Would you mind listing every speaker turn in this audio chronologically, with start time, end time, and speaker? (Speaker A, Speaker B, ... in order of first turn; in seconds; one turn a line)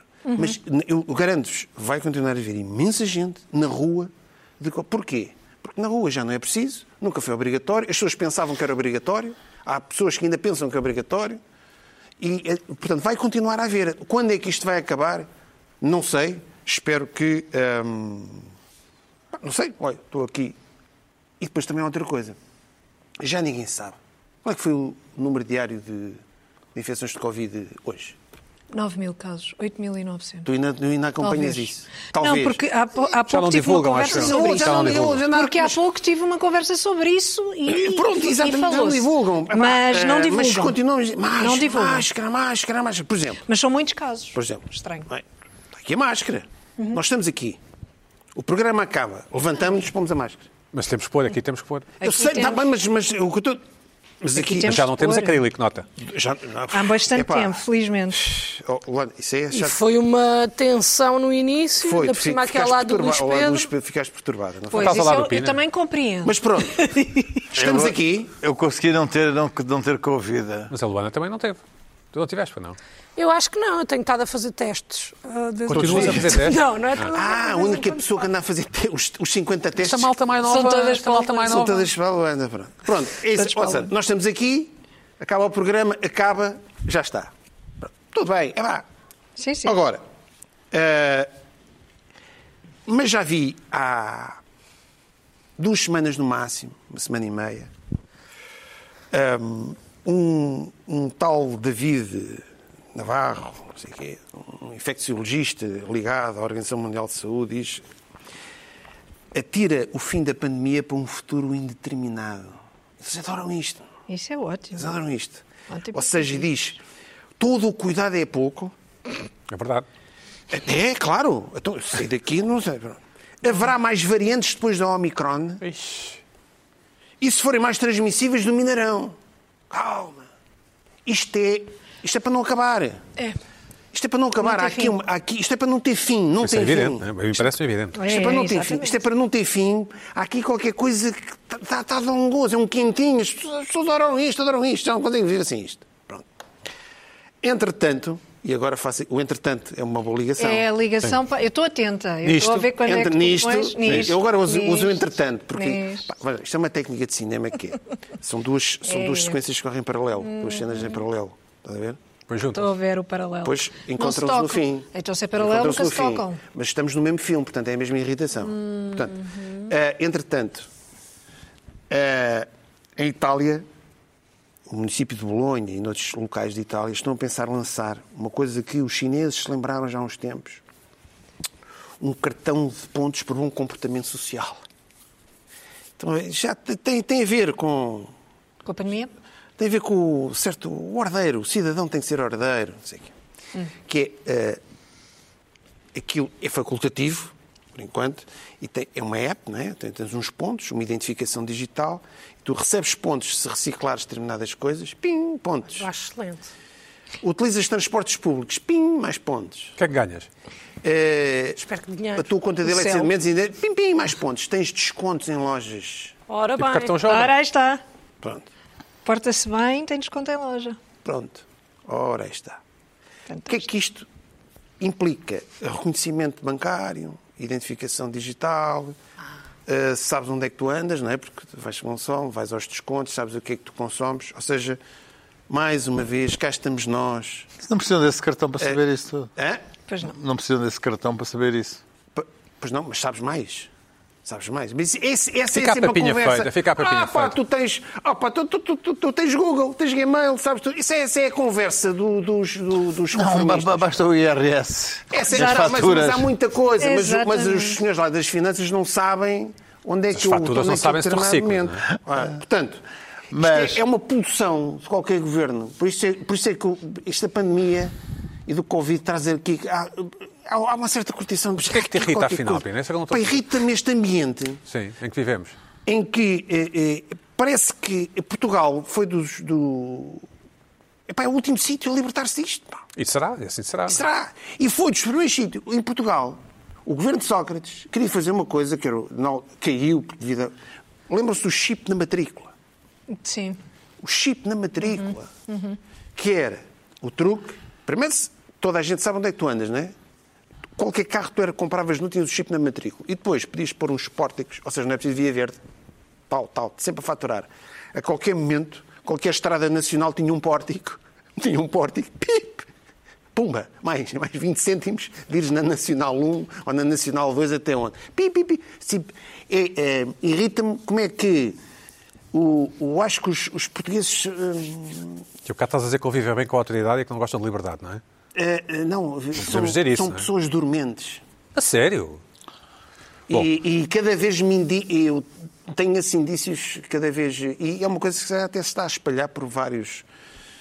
Speaker A: 0.2-0.5
Speaker B: 0.3-11.4
Speaker B: 12.2-15.3
Speaker B: 15.8-18.5
Speaker B: 19.3-20.6
Speaker B: 21.4-22.4
Speaker B: 23.2-26.2
Speaker B: 26.7-28.2
Speaker A: 28.7-30.5
Speaker B: 30.4-32.6
Speaker A: 31.2-40.8
Speaker C: 33.3-35.2
Speaker B: 34.1-35.8
Speaker B: 37.7-43.4
Speaker A: 41.4-42.0
Speaker A: 43.5-45.1
Speaker B: 44.3-47.6
Speaker B: 48.3-50.5
Speaker C: 50.7-51.9
Speaker A: 52.0-52.6
Speaker B: 52.0-53.6
Speaker B: 54.2-54.9
Speaker A: 54.4-55.4
Speaker C: 54.6-55.9
Speaker B: 56.0-57.6
Speaker A: 56.7-58.2
Speaker B: 58.1-59.8
Speaker D: 59.5-63.7
Speaker B: 61.8-65.1
Speaker A: 64.7-67.5
Speaker C: 64.8-65.6
Speaker B: 66.2-68.3
Speaker E: 67.5-70.7
Speaker C: 70.7-71.6
Speaker C: 72.1-72.8
Speaker D: 73.2-78.2
Speaker C: 75.7-77.1
Speaker B: 75.7-76.5
Speaker B: 77.1-80.1
Speaker C: 79.8-81.9
Speaker A: 80.4-81.6
Speaker B: 81.4-88.8
Speaker A: 83.4-83.9
Speaker A: 89.4-89.7
Speaker B: 89.6-90.0
Speaker B: 90.7-91.3
Speaker B: 92.8-94.4
Speaker B: 95.6-97.7
Speaker B: 99.1-107.8
Speaker B: 109.3-113.9
Speaker A: 114.1-114.9
Speaker B: 114.7-116.8
Speaker A: 115.7-116.4
Speaker B: 117.4-118.7
Speaker C: 119.5-119.8
Speaker B: 120.5-125.6
Speaker C: 125.6-126.2
Speaker B: 127.2-129.2
Speaker B: 129.7-130.3
Speaker B: 131.0-133.0
Speaker B: 133.9-146.3
Speaker A: 134.4-134.9
Speaker C: 136.4-138.0
Speaker A: 137.9-139.0
Speaker B: 147.4-150.7
Speaker A: 150.4-156.1
Speaker C: 152.2-152.7
Speaker B: 152.8-162.0
Speaker A: 158.9-159.4
Speaker A: 160.2-161.0
Speaker C: 162.3-162.7
Speaker A: 162.5-166.4
Speaker B: 163.4-170.7
Speaker A: 168.4-169.6
Speaker B: 171.9-173.7
Speaker B: 174.7-180.6
Speaker B: 182.0-184.6
Speaker B: 186.0-188.1
Speaker A: 188.6-189.1
Speaker B: 189.6-193.1
Speaker B: 193.8-194.6
Speaker B: 195.9-205.9
Speaker D: 205.8-206.5
Speaker B: 207.2-209.7
Speaker C: 209.8-210.3
Speaker B: 210.8-211.6
Speaker D: 211.6-212.3
Speaker B: 212.1-216.1
Speaker A: 212.6-213.1
Speaker D: 216.3-217.1
Speaker C: 216.6-217.3
Speaker A: 217.0-217.8
Speaker A: 219.0-220.8
Speaker B: 221.0-222.6
Speaker A: 223.3-223.6
Speaker B: 223.5-224.1
Speaker B: 224.8-228.9
Speaker B: 229.7-234.8
Speaker B: 235.5-237.5
Speaker E: 237.6-239.3
Speaker B: 239.3-239.6
Speaker A: 239.9-240.1
Speaker E: 240.0-241.8
Speaker B: 242.1-243.7
Speaker B: 244.2-254.0
Speaker C: 245.5-247.3
Speaker E: 253.1-256.3
Speaker B: 255.1-267.9
Speaker A: 255.3-255.7
Speaker A: 256.8-257.8
Speaker C: 260.1-261.8
Speaker E: 263.3-263.8
Speaker B: 268.4-274.6
Speaker C: 271.7-273.4
Speaker C: 274.7-275.5
Speaker B: 275.9-280.2
Speaker B: 281.1-282.8
Speaker C: 282.9-284.0
Speaker B: 283.9-290.5
Speaker B: 291.1-292.5
Speaker A: 293.1-293.6
Speaker B: 294.0-295.3
Speaker A: 294.9-295.8
Speaker B: 296.1-299.9
Speaker B: 300.8-305.6
Speaker B: 306.3-312.7
Speaker B: 313.3-321.6
Speaker B: 322.3-325.2
Speaker C: 325.4-328.0
Speaker B: 328.3-331.2
Speaker C: 329.4-330.3
Speaker C: 331.5-332.2
Speaker B: 333.3-340.1